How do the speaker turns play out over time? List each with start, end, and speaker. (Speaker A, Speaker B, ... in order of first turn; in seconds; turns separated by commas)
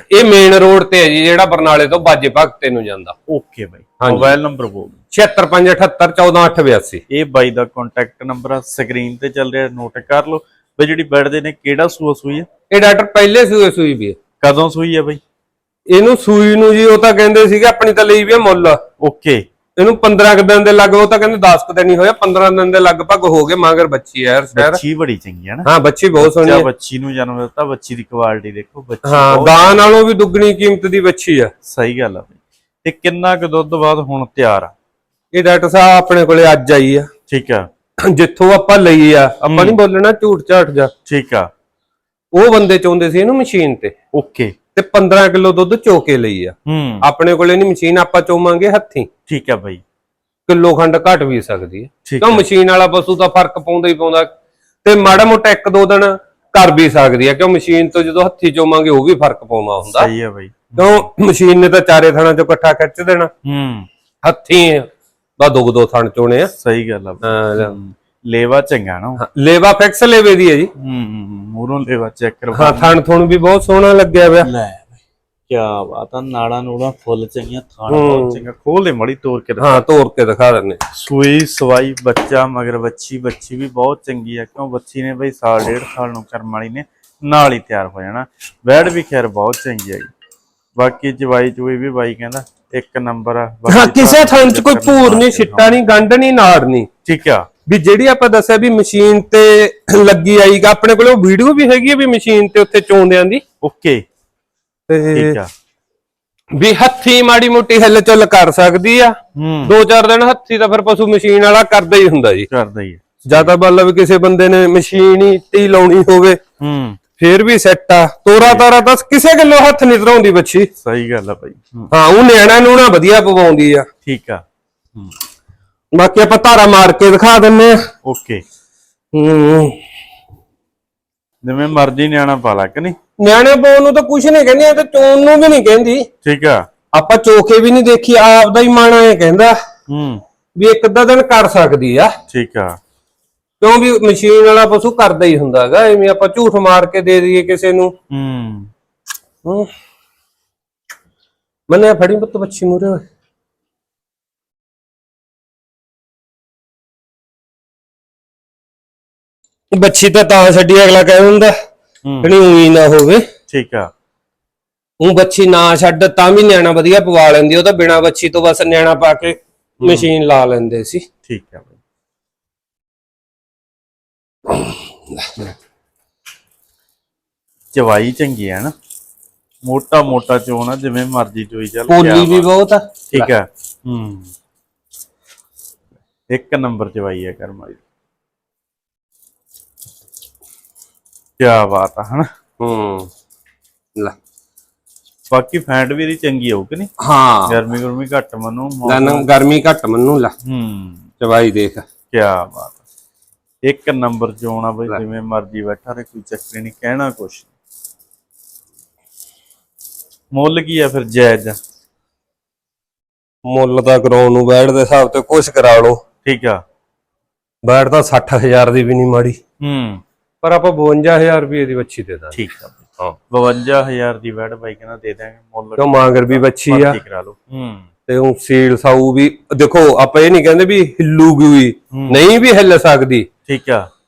Speaker A: 0.1-3.2, Speaker B: 3.3-5.0, Speaker A: 4.0-4.3, Speaker A: 5.1-7.0, Speaker B: 7.1-12.5, Speaker A: 12.7-14.2, Speaker B: 14.4-15.2, Speaker A: 15.9-18.8, Speaker B: 19.0-19.4, Speaker A: 19.8-24.8, Speaker B: 24.5-29.9, Speaker A: 25.7-26.7, Speaker A: 29.0-31.5, Speaker B: 31.6-34.7, Speaker A: 35.3-37.1, Speaker B: 37.3-37.7, Speaker A: 38.1-40.9, Speaker B: 39.4-39.8, Speaker B: 41.1-41.5, Speaker A: 42.3-43.9, Speaker B: 44.1-44.5, Speaker A: 44.8-49.1, Speaker B: 46.7-47.1, Speaker B: 49.3-49.8, Speaker A: 50.5-54.3, Speaker B: 52.0-52.5, Speaker A: 54.8-60.1, Speaker B: 59.9-61.1, Speaker A: 60.8-63.3, Speaker B: 63.4-63.9, Speaker A: 64.2-66.5, Speaker B: 66.6-69.2, Speaker A: 67.2-67.8, Speaker A: 69.2-70.7, Speaker B: 70.8-73.0, Speaker A: 72.5-74.5, Speaker B: 74.4-79.8, Speaker A: 77.9-78.4, Speaker A: 79.6-80.8, Speaker B: 80.9-90.1, Speaker B: 90.8-95.8, Speaker A: 93.7-96.9, Speaker B: 97.0-97.5, Speaker A: 97.7-103.4, Speaker B: 103.6-104.0, Speaker A: 104.9-105.4, Speaker B: 105.1-105.5, Speaker A: 106.5-112.5, Speaker B: 109.3-109.8, Speaker B: 112.5-113.5, Speaker A: 113.3-116.4, Speaker B: 116.6-117.0, Speaker A: 117.2-120.7, Speaker B: 118.4-118.7, Speaker B: 120.8-121.9, Speaker A: 121.9-123.9, Speaker B: 124.0-124.4, Speaker A: 125.9-127.8, Speaker B: 128.0-128.4, Speaker A: 129.1-129.8, Speaker B: 131.4-133.0, Speaker A: 133.2-136.1, Speaker B: 136.2-136.7, Speaker A: 136.9-139.5, Speaker B: 139.9-140.2, Speaker A: 140.6-142.1, Speaker B: 142.3-142.8, Speaker A: 143.6-147.9, Speaker B: 148.1-148.7, Speaker A: 149.4-149.7, Speaker A: 151.7-153.0, Speaker A: 159.7-161.5, Speaker B: 162.0-162.3, Speaker A: 162.2-163.2, Speaker B: 163.5-163.9, Speaker A: 165.0-171.0, Speaker B: 169.8-170.1, Speaker B: 171.3-171.7, Speaker B: 177.7-178.7, Speaker B: 179.6-182.5, Speaker A: 181.9-183.3, Speaker B: 183.1-184.3, Speaker B: 186.3-187.8, Speaker B: 191.4-192.3, Speaker A: 192.6-193.1, Speaker B: 195.3-196.9, Speaker A: 197.0-197.6, Speaker B: 197.5-199.3, Speaker A: 198.9-200.3, Speaker B: 200.4-201.1, Speaker A: 201.2-201.8, Speaker B: 202.1-202.8, Speaker B: 203.7-207.5, Speaker B: 210.3-211.6, Speaker A: 213.4-216.0, Speaker B: 216.2-216.6, Speaker A: 217.7-219.4, Speaker B: 219.6-220.0, Speaker A: 220.4-222.4, Speaker B: 222.3-227.9, Speaker A: 225.8-227.0, Speaker A: 228.1-233.3, Speaker B: 231.9-232.2, Speaker B: 233.5-233.9